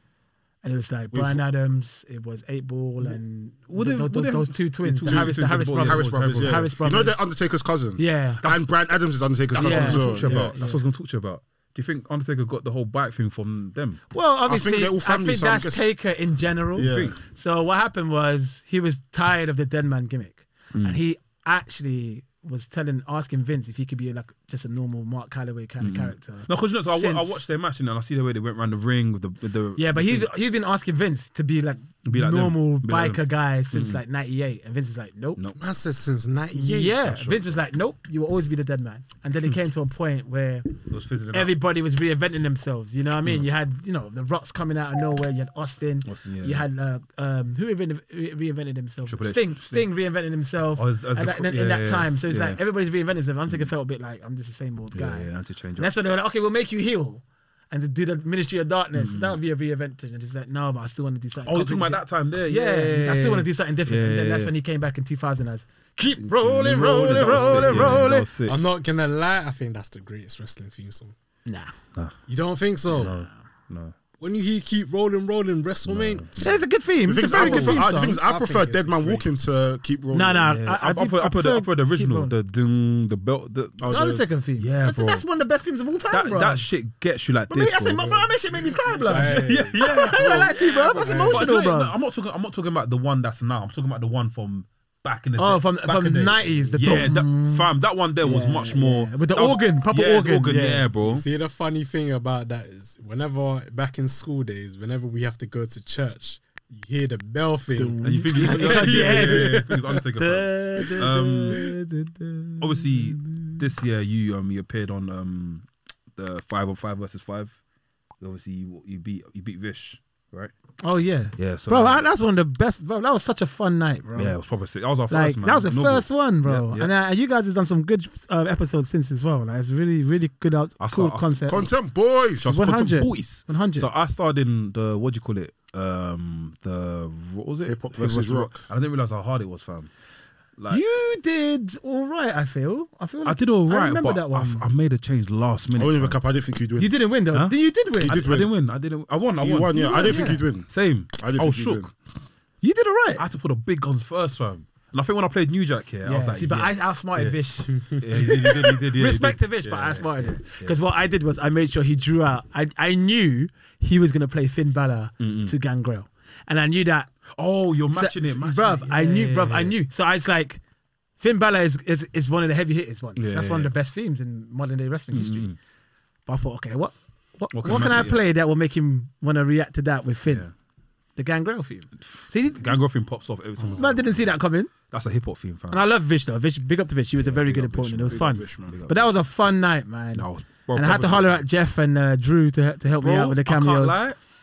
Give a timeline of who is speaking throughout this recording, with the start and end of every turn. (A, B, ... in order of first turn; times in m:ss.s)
0:00.6-0:07.2 A
0:01.1-0:01.4 B
0:03.7-0:06.6 C
0:05.0-0:10.6 B
0:08.0-0:08.4 A
0:08.4-0:08.7 C
0:09.5-0:14.0 C
0:09.5-0:10.8 A
0:14.1-0:27.4 A
0:14.4-0:15.8 B
0:16.7-0:17.2 B
0:16.8-0:17.2 C
0:20.7-0:21.0 C
0:25.8-0:30.3 C
0:29.8-0:35.4 A
0:32.0-0:34.0 C
0:35.6-0:37.0 D
0:36.5-0:40.8 A
0:37.0-0:37.6 C
0:40.9-0:41.6 C
0:41.3-1:08.3 A
0:46.0-0:46.6 C
0:49.1-0:49.9 C
0:50.8-0:52.6 C
0:54.9-0:55.9 C
0:59.0-0:59.4 C
1:01.4-1:04.5 C
1:06.2-1:08.6 C
1:06.6-1:11.1 D
1:11.4-1:11.7 A
1:12.3-1:13.1 D
1:12.9-1:13.9 C
1:14.2-1:16.4 D
1:15.9-1:16.6 C
1:16.4-1:18.2 A
1:17.0-1:20.5 B
1:17.2-1:19.3 D
1:20.1-1:22.3 A
1:20.4-1:25.2 C
1:23.8-1:24.2 B
1:23.9-1:26.6 A
1:26.1-1:28.2 C
1:27.5-1:31.9 A
1:28.8-1:29.8 D
1:29.1-1:41.3 C
1:30.8-1:31.5 D
1:35.4-1:40.9 A
1:41.0-1:50.0 D
1:47.8-1:53.6 A
1:48.0-1:51.7 C
1:52.6-1:57.6 C
1:58.2-2:00.5 C
2:00.8-2:04.4 A
2:01.4-2:02.0 C
2:04.2-2:06.9 C
2:05.1-2:11.7 A
2:10.8-2:11.6 C
2:11.5-2:12.5 B
2:12.4-2:19.9 C
2:12.4-2:13.9 A
2:17.6-2:18.6 B
2:20.6-2:20.8 C
2:20.7-2:24.7 A
2:23.2-2:26.2 C
2:25.8-2:27.0 B
2:26.8-2:28.2 A
2:27.3-2:31.9 C
2:28.0-2:28.5 B
2:29.4-2:31.9 B
2:29.7-2:30.4 A
2:32.6-2:33.2 A
2:33.2-2:40.8 C
2:36.0-2:47.1 A
2:37.7-2:38.0 D
2:45.2-2:45.6 C
2:47.3-2:49.8 C
2:47.9-2:50.6 A
2:51.2-2:55.5 A
2:53.2-2:53.7 C
2:55.1-2:55.6 C
2:56.3-3:00.5 A
2:57.5-2:58.2 C
3:00.3-3:00.5 C
3:01.2-3:02.8 A
3:02.0-3:05.9 C
3:03.8-3:04.7 A
3:05.7-3:14.0 A
3:07.2-3:09.3 C
3:08.1-3:08.8 B
3:10.1-3:11.4 C
3:13.0-3:14.2 C